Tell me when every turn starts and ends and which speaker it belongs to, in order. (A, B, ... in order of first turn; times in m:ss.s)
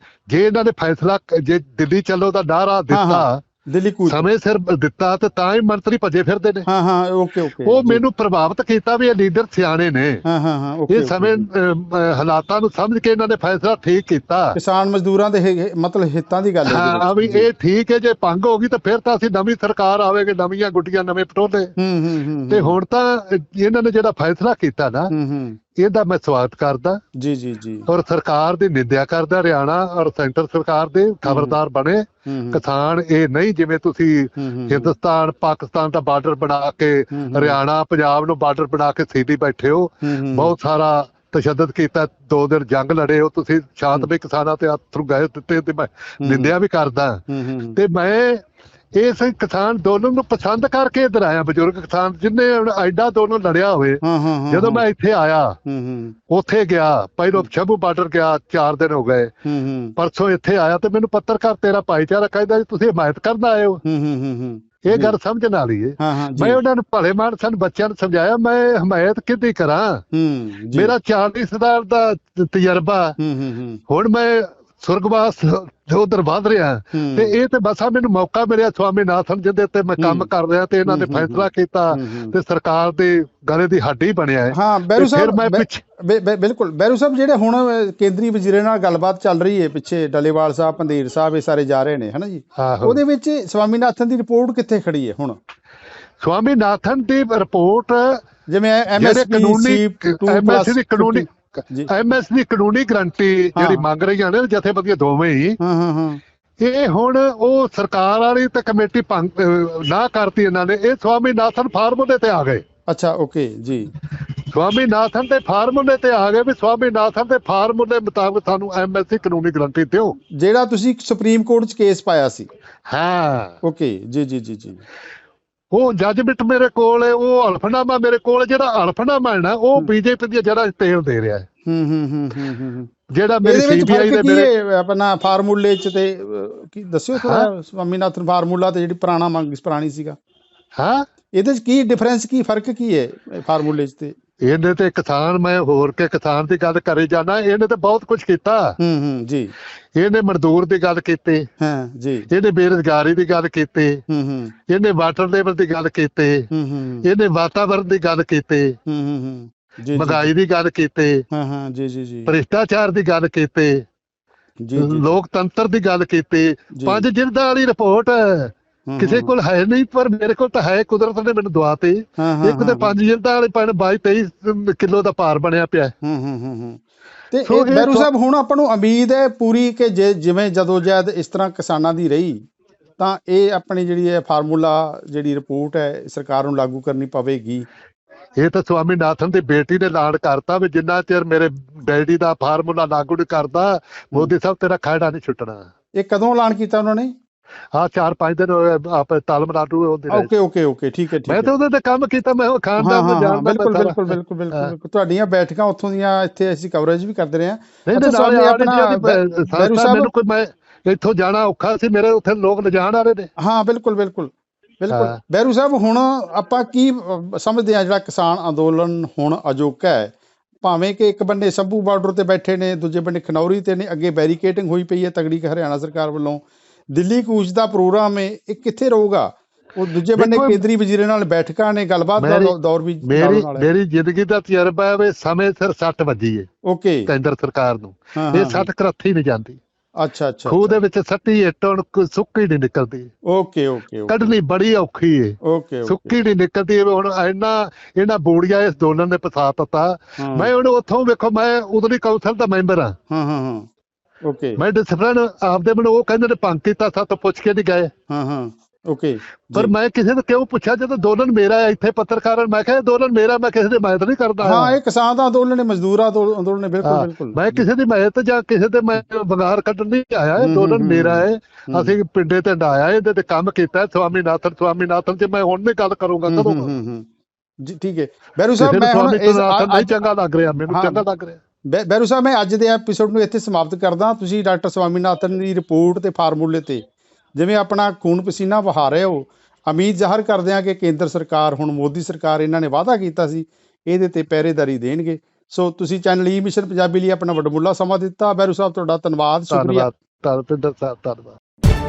0:00.3-0:03.4 A
0:02.9-0:04.2 B
0:04.1-0:06.6 A
0:06.7-0:08.0 B
0:07.6-0:10.2 A
0:10.2-0:11.4 B
0:10.9-0:14.6 A
0:14.5-0:17.5 B
0:16.7-0:21.7 A
0:21.8-0:22.8 B
0:22.5-0:25.1 A
0:25.1-0:25.6 B
0:25.8-0:27.0 A
0:27.2-0:27.9 B
0:27.9-0:47.2 A
0:31.2-0:31.6 B
0:32.2-0:32.6 B
0:34.4-0:34.9 B
0:37.1-0:37.6 B
0:40.0-0:40.5 B
0:46.2-0:46.5 B
0:47.3-0:47.8 B
0:47.7-0:48.4 A
0:49.0-0:55.6 A
0:54.0-0:54.8 B
0:55.7-0:56.2 B
0:56.3-0:59.3 A
0:59.4-0:59.9 B
1:00.0-1:03.8 A
1:03.8-1:05.1 B
1:04.8-1:10.0 A
1:06.0-1:06.6 B
1:10.1-1:10.9 B
1:10.7-1:13.2 A
1:13.2-1:13.8 B
1:13.9-1:25.8 A
1:16.9-1:17.4 B
1:20.0-1:20.3 B
1:20.8-1:22.3 B
1:24.5-1:35.4 B
1:32.6-1:33.0 A
1:36.2-1:38.2 A
1:38.5-1:41.9 B
1:39.0-1:45.6 A
1:43.6-1:43.8 B
1:45.6-1:46.2 B
1:46.6-1:52.6 A
1:52.9-1:53.9 B
1:54.1-2:00.2 A
2:00.4-2:02.5 B
2:02.9-2:03.6 A
2:03.6-2:04.8 B
2:05.7-2:11.5 A
2:11.7-2:12.9 B
2:13.1-2:14.5 A
2:13.4-2:20.2 B
2:17.2-2:17.5 A
2:20.8-2:21.0 A
2:21.4-2:24.1 B
2:24.4-2:28.8 A
2:28.8-2:29.5 B
2:30.0-2:31.5 A
2:31.6-2:32.3 B
2:32.3-2:34.0 A
2:34.1-2:34.5 B
2:34.7-2:36.5 A
2:36.5-2:37.1 B
2:37.0-2:38.8 A
2:38.9-2:40.3 B
2:39.9-2:41.2 A
2:41.3-2:42.3 B
2:42.3-2:43.8 A
2:44.6-2:45.0 B
2:44.8-2:55.9 A
2:46.7-2:47.0 B
2:48.9-2:49.3 B
2:52.2-2:52.9 B
2:56.0-2:56.8 B
2:57.3-3:02.4 B
2:57.4-2:58.1 A
3:03.0-3:07.7 B
3:08.4-3:15.7 A
3:16.0-3:17.1 B
3:17.7-3:20.3 A
3:20.1-3:21.5 B
3:21.3-3:24.7 A
3:22.8-3:30.1 B
3:27.9-3:33.3 A
3:33.4-3:53.7 B
3:34.9-3:35.2 A
3:50.2-3:50.6 A
3:52.2-3:56.5 A
3:56.7-3:57.1 B
3:57.1-3:59.6 A
3:58.2-3:58.7 B
4:00.0-4:00.8 B
4:00.5-4:03.1 A
4:03.3-4:04.4 B
4:04.1-4:12.9 A
4:05.4-4:06.2 B
4:10.2-4:10.5 B
4:13.1-4:13.7 B
4:14.2-4:14.6 B
4:14.6-4:17.9 A
4:18.1-4:19.7 B
4:19.5-4:24.7 A
4:24.4-4:27.6 B
4:26.8-4:36.7 A
4:30.4-4:31.9 B
4:36.3-4:37.1 B
4:37.6-4:39.9 B
4:38.6-4:41.4 A
4:40.7-4:41.0 B
4:41.7-4:46.8 B
4:47.4-4:59.9 B
4:59.5-5:01.4 A